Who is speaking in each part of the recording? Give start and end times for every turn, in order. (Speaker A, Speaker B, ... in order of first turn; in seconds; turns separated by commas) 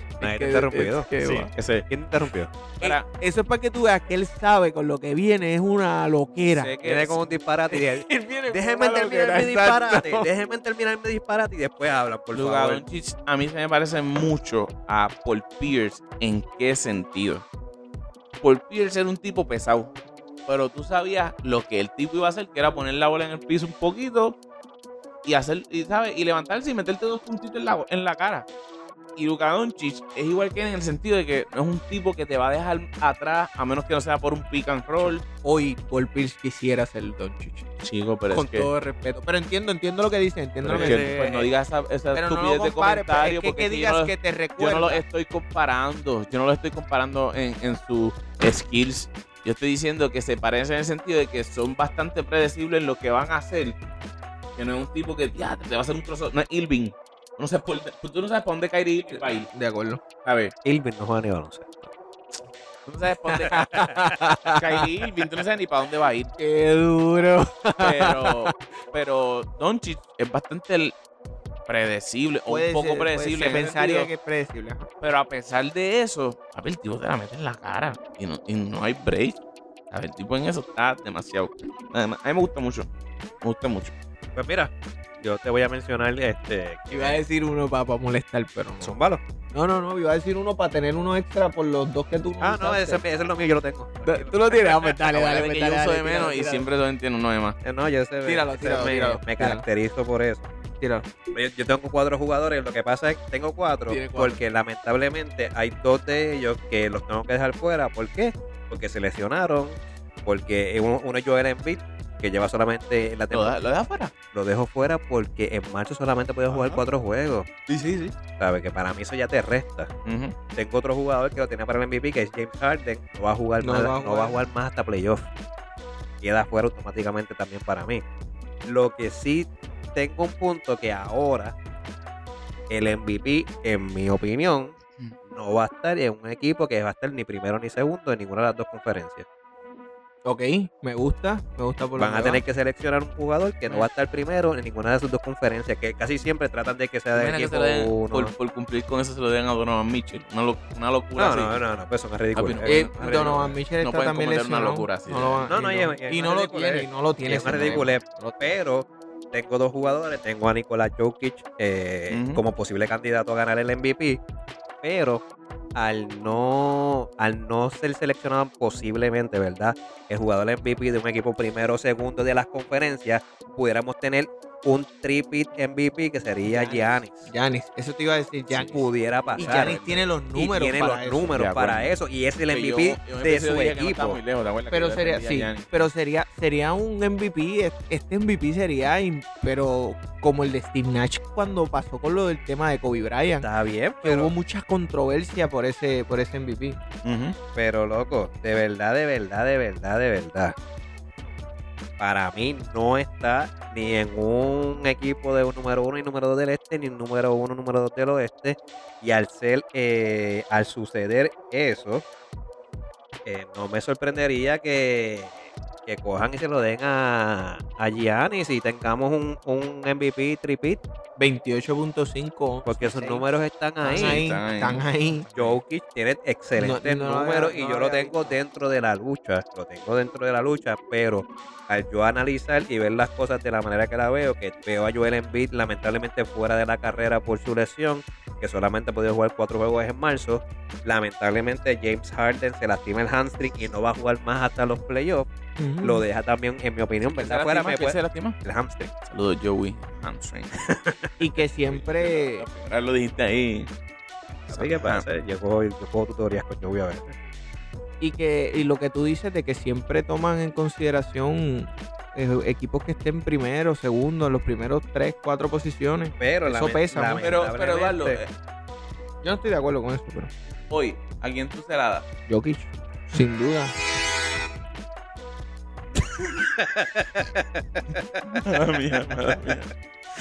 Speaker A: 0.2-1.5, Speaker B: 0.2-2.5, Speaker C: 1.5-1.9, Speaker C: 2.8-3.0, Speaker A: 2.8-6.8, Speaker C: 6.5-7.2, Speaker B: 6.8-12.8, Speaker A: 7.7-10.3, Speaker C: 12.3-17.4, Speaker C: 18.4-19.9, Speaker C: 20.5-24.4, Speaker C: 25.2-28.5, Speaker C: 29.1-35.2, Speaker A: 35.0-37.7, Speaker C: 37.8-38.7, Speaker A: 38.3-41.1, Speaker C: 40.6-53.8, Speaker B: 40.7-41.5, Speaker A: 42.1-45.0, Speaker C: 54.5-59.5, Speaker A: 59.1-60.0, Speaker C: 60.2-60.5, Speaker B: 60.6-61.9, Speaker C: 62.9-63.7, Speaker A: 63.3-65.1, Speaker C: 64.5-66.3, Speaker A: 66.4-68.5, Speaker C: 67.8-70.9, Speaker C: 71.7-74.1, Speaker A: 72.5-74.9, Speaker C: 75.0-79.4, Speaker C: 79.9-82.9, Speaker C: 83.4-83.9, Speaker B: 84.3-87.2, Speaker A: 86.9-88.9, Speaker B: 88.8-89.2, Speaker A: 89.5-93.0, Speaker B: 92.4-95.3, Speaker A: 94.0-96.7, Speaker C: 95.1-97.6, Speaker B: 97.6-100.5, Speaker A: 98.2-99.6, Speaker C: 98.7-99.1, Speaker A: 100.8-101.1, Speaker B: 101.3-113.6, Speaker A: 103.9-104.4, Speaker C: 113.3-114.1, Speaker B: 114.3-117.5, Speaker C: 116.5-116.8, Speaker A: 117.7-118.1, Speaker B: 118.4-119.9, Speaker C: 120.0-120.3, Speaker B: 120.5-125.3, Speaker A: 123.6-124.5, Speaker B: 126.2-128.0, Speaker B: 128.7-131.5, Speaker B: 132.7-139.2, Speaker A: 140.2-142.4, Speaker B: 142.0-148.3, Speaker C: 147.1-151.6, Speaker B: 151.2-153.3, Speaker C: 152.3-155.5, Speaker A: 152.6-158.6, Speaker B: 155.5-164.2, Speaker C: 157.5-157.9, Speaker C: 162.1-162.4, Speaker B: 164.8-165.2, Speaker B: 165.7-177.3, Speaker A: 176.4-181.3, Speaker B: 178.5-179.8, Speaker C: 179.1-180.1, Speaker B: 180.3-184.2, Speaker C: 181.3-182.0, Speaker C: 182.5-185.7, Speaker A: 184.7-193.5, Speaker B: 193.4-194.3, Speaker A: 194.0-196.8, Speaker C: 197.0-197.3, Speaker B: 197.5-200.5, Speaker B: 202.0-212.0, Speaker B: 213.2-220.8, Speaker A: 221.2-223.2, Speaker B: 222.6-224.2, Speaker A: 223.8-225.3, Speaker C: 223.9-224.8, Speaker B: 225.3-245.3, Speaker A: 226.6-228.4, Speaker A: 245.6-246.0, Speaker B: 245.8-248.9, Speaker C: 247.0-248.4, Speaker C: 249.1-250.6, Speaker A: 251.2-252.4, Speaker C: 251.3-253.7, Speaker C: 254.5-255.0, Speaker B: 254.5-257.1, Speaker A: 258.0-267.3, Speaker B: 266.2-268.2, Speaker C: 267.2-268.3, Speaker A: 269.2-270.3, Speaker C: 270.7-272.1, Speaker A: 272.3-273.7, Speaker B: 276.6-278.4, Speaker C: 278.3-279.7